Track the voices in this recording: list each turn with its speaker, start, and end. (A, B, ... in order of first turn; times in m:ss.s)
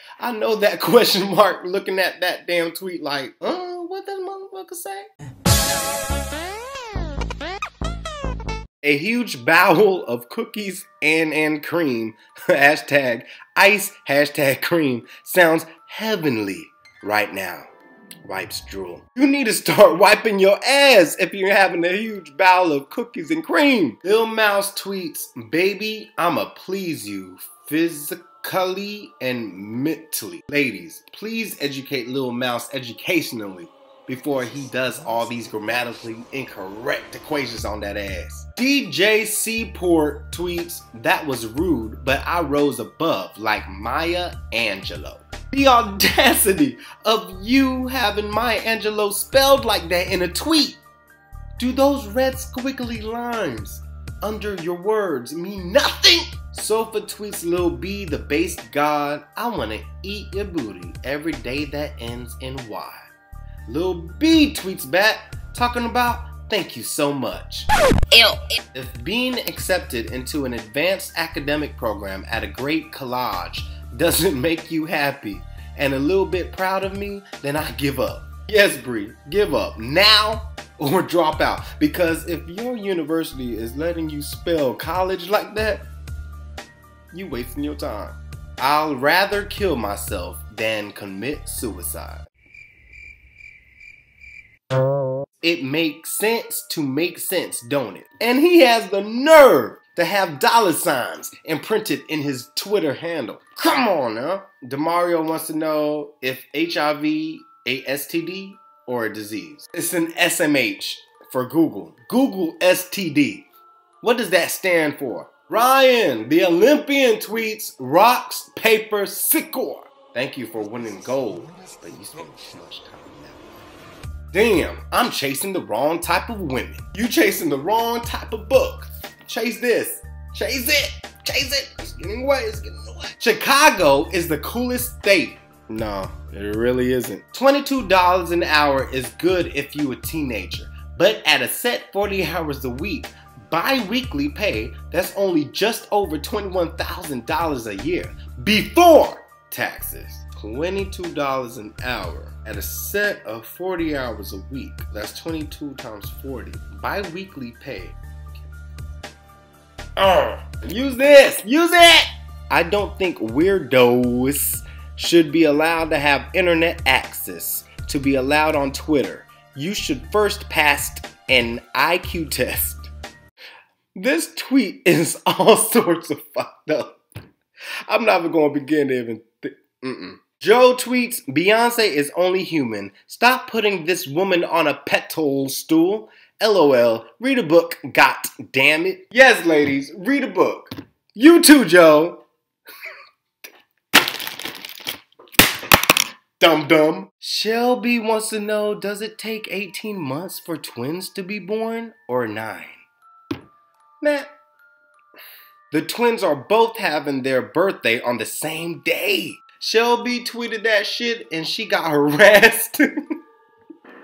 0:00.2-0:05.1 A
0:08.8-0:17.7 A
0:18.2-0:50.8 A
0:51.6-1:03.1 A
1:03.7-1:25.9 A
1:27.1-1:32.2 A
1:35.4-1:53.5 A
1:54.0-2:03.4 A
2:04.3-2:38.5 A
2:40.0-2:52.9 A
2:54.0-2:57.0 A
2:57.9-3:12.2 A
3:16.4-3:22.8 A
3:24.0-3:24.3 A
3:25.7-3:32.8 A